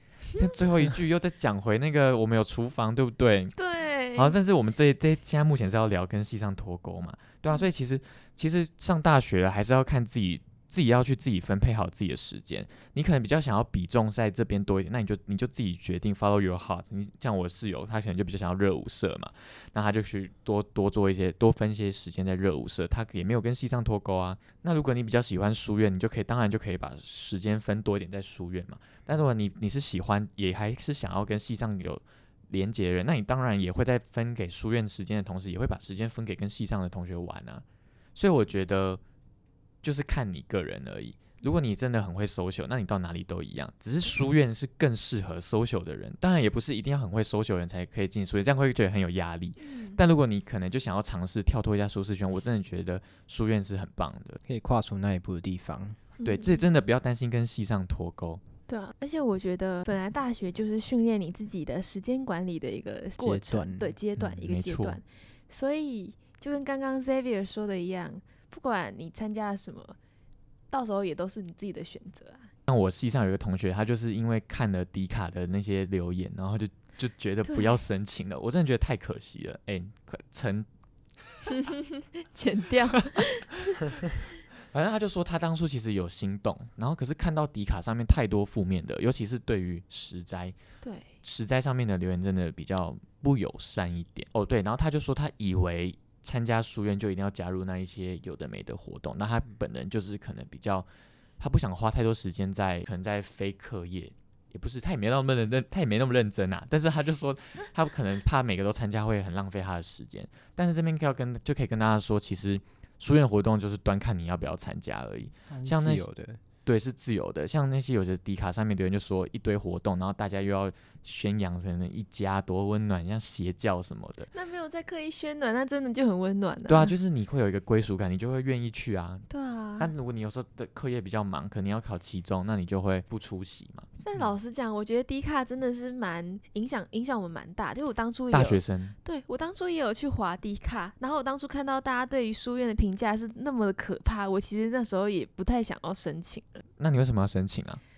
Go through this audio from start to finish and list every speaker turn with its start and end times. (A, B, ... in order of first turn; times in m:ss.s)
0:00.4-0:03.6 A
0:03.6-0:04.4 B
0:04.2-0:37.6 A
0:38.2-0:39.0 A
0:39.8-0:54.4 A
0:49.6-0:50.0 B
0:54.5-0:56.0 C
0:56.2-0:56.6 B
0:56.2-0:58.4 A
0:58.7-1:10.0 B
1:03.2-1:03.9 C
1:04.2-1:05.0 A
1:10.7-1:12.5 B
1:12.7-1:20.7 A
1:21.5-1:23.8 B
1:24.7-1:30.6 A
1:30.8-1:31.1 B
1:31.2-1:40.9 A
1:41.4-1:56.1 A
1:55.5-1:56.4 C
1:56.6-2:04.3 A
2:04.3-2:06.9 B
2:06.7-2:09.3 A
2:09.3-2:09.9 B
2:09.8-2:13.9 A
2:14.0-2:26.6 B
2:18.3-2:19.0 A
2:26.8-2:27.8 A